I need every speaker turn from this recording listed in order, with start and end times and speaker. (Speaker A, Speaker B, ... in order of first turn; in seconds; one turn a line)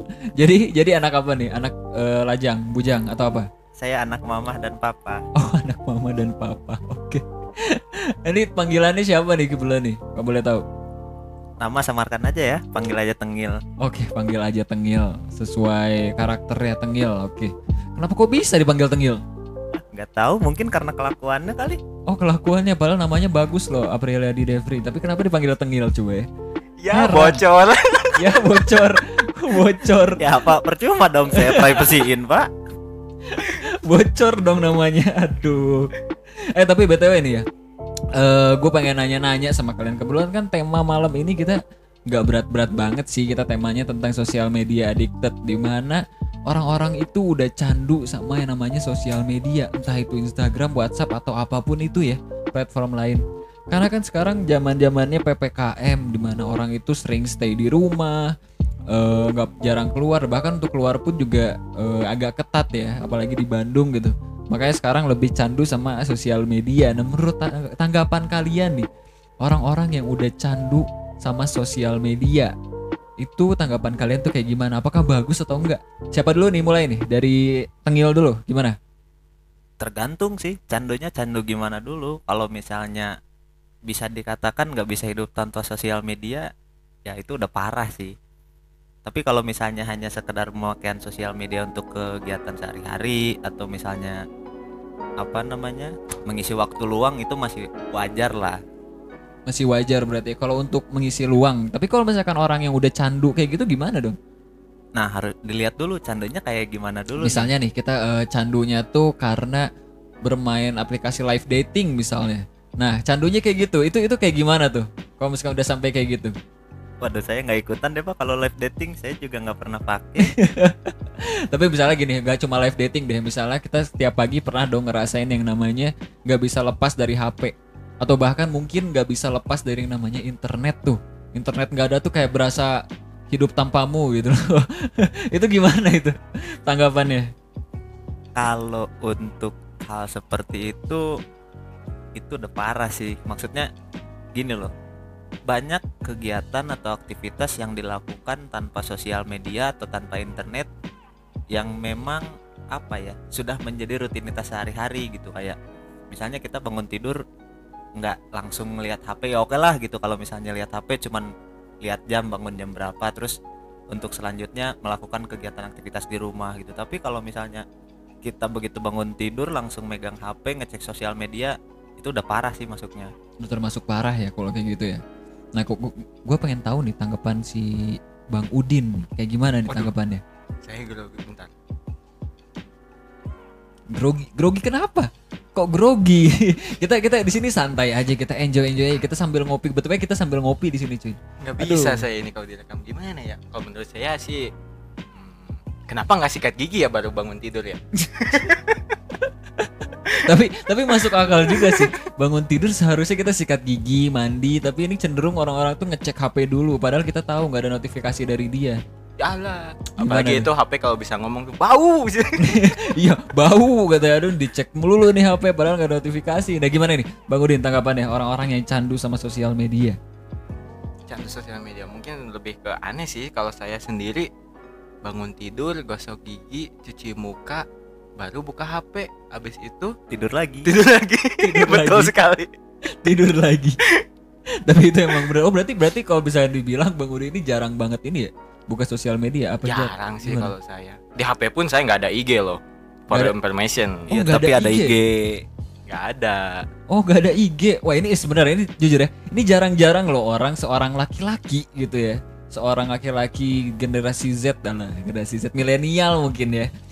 Speaker A: 0.4-3.5
Speaker B: 3.8-5.2
Speaker A: 5.4-10.6
Speaker B: 11.6-13.6
Speaker A: 13.8-19.2
Speaker B: 19.9-21.8
Speaker A: 22.1-26.3
Speaker C: 26.8-28.5
Speaker A: 26.9-27.4
Speaker A: 28.2-30.2
Speaker B: 30.2-32.5
Speaker A: 31.4-31.8
Speaker A: 33.3-35.9
Speaker A: 36.5-37.5
Speaker A: 38.1-58.3
Speaker A: 58.9-68.9
Speaker A: 69.4-72.5
Speaker A: 73.2-78.8
Speaker B: 79.8-83.1
Speaker B: 83.9-86.5
Speaker B: 87.1-88.2
Speaker B: 89.0-94.2
Speaker B: 95.2-98.6
Speaker A: 99.5-104.2
Speaker B: 105.0-107.5
Speaker A: 107.2-109.7
Speaker A: 110.2-116.3
Speaker B: 117.0-120.3
Speaker A: 120.2-137.3
Speaker B: 138.4-141.1
Speaker B: 142.2-143.7
Speaker B: 144.4-144.7
Speaker B: 145.5-150.7
Speaker B: 151.5-155.6
Speaker B: 156.1-157.2
Speaker B: 158.0-161.3
Speaker B: 161.8-163.4
Speaker B: 163.9-167.7
Speaker B: 168.2-173.1
Speaker A: 173.4-175.0
Speaker A: 175.6-180.2
Speaker C: 180.6-181.5
Speaker A: 183.9-192.0
Speaker C: 191.4-194.5
Speaker C: 195.1-198.9
Speaker A: 200.2-208.8
Speaker C: 200.9-201.9
Speaker C: 209.2-212.7
Speaker A: 210.0-210.5
Speaker A: 212.4-220.0
Speaker C: 221.1-224.3
Speaker C: 225.0-227.7
Speaker C: 228.2-230.0
Speaker B: 230.1-230.7
Speaker C: 230.7-232.5
Speaker A: 231.4-232.1
Speaker A: 232.9-233.8
Speaker A: 234.7-240.5
Speaker C: 239.7-244.1
Speaker A: 244.1-244.9
Speaker B: 244.1-245.5
Speaker C: 245.9-246.7
Speaker A: 246.9-256.7